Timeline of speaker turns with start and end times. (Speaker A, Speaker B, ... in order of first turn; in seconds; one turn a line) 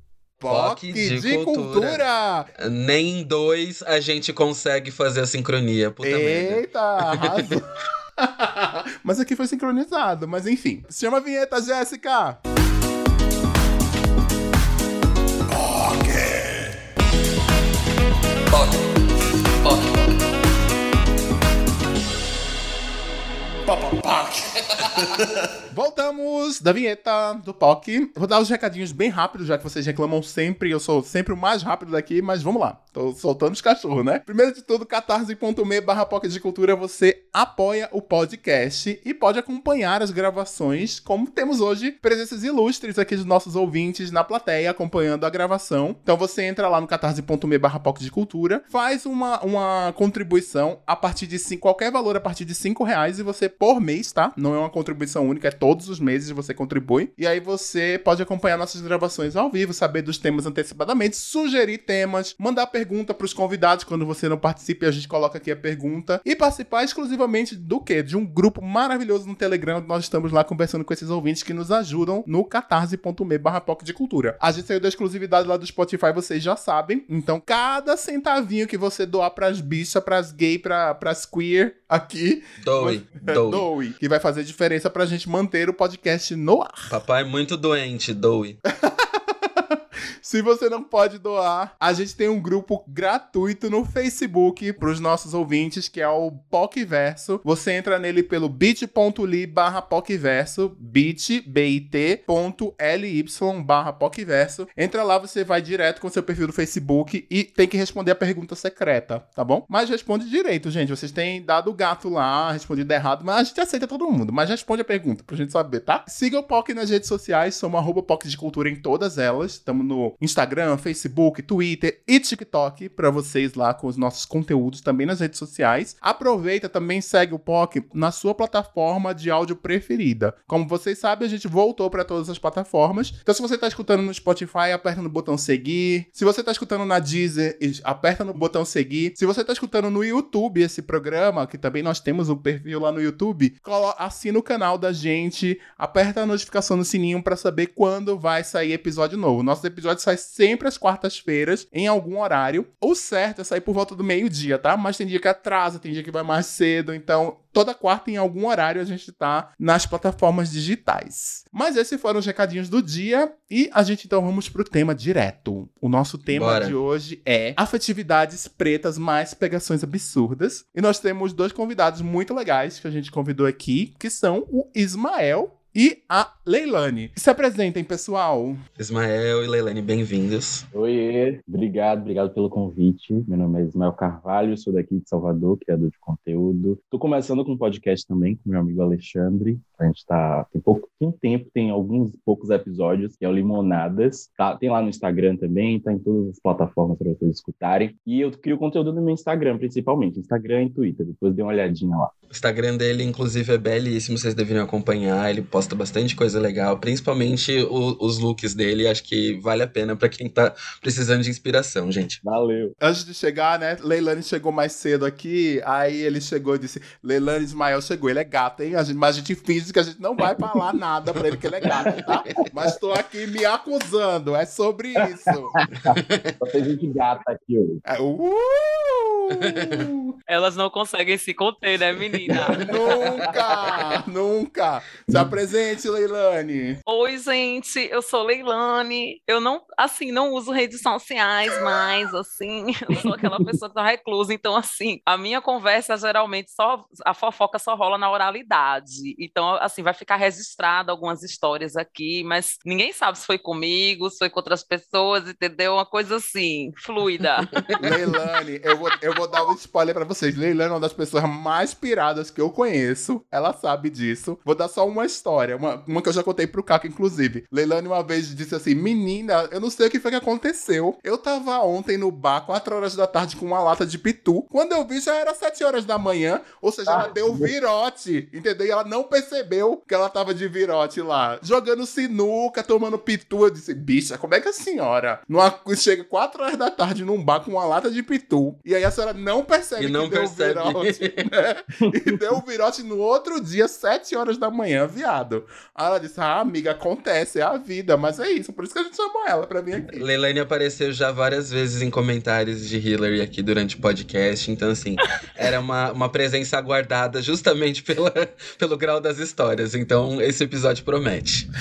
Speaker A: 0.4-2.5
Speaker B: 0.5-2.0
Speaker B: 2.6-7.6
Speaker A: 6.0-7.6
Speaker A: 8.2-12.4
Speaker A: 15.5-16.8
Speaker B: 18.5-19.0
Speaker B: 19.6-20.0
Speaker A: 23.7-24.6
Speaker A: 25.7-86.9
Speaker B: 82.6-83.7
Speaker B: 86.9-88.6
Speaker A: 88.8-178.6
Speaker B: 166.3-166.8
Speaker B: 178.8-180.7
Speaker C: 180.7-202.1
Speaker B: 202.3-212.2
Speaker C: 212.2-212.8
Speaker A: 212.8-225.6
Speaker B: 221.6-222.2
Speaker C: 221.7-222.4
Speaker C: 225.5-227.8
Speaker B: 225.9-226.4
Speaker A: 227.8-230.1
Speaker B: 229.3-229.9
Speaker D: 230.3-233.0
Speaker C: 232.3-232.6
Speaker B: 232.3-233.8
Speaker A: 232.6-236.8
Speaker D: 236.9-257.8
Speaker C: 243.0-243.5
Speaker B: 257.5-257.9
Speaker A: 257.8-300.1
Speaker C: 276.9-277.5
Speaker B: 289.8-291.3
Speaker B: 299.9-311.5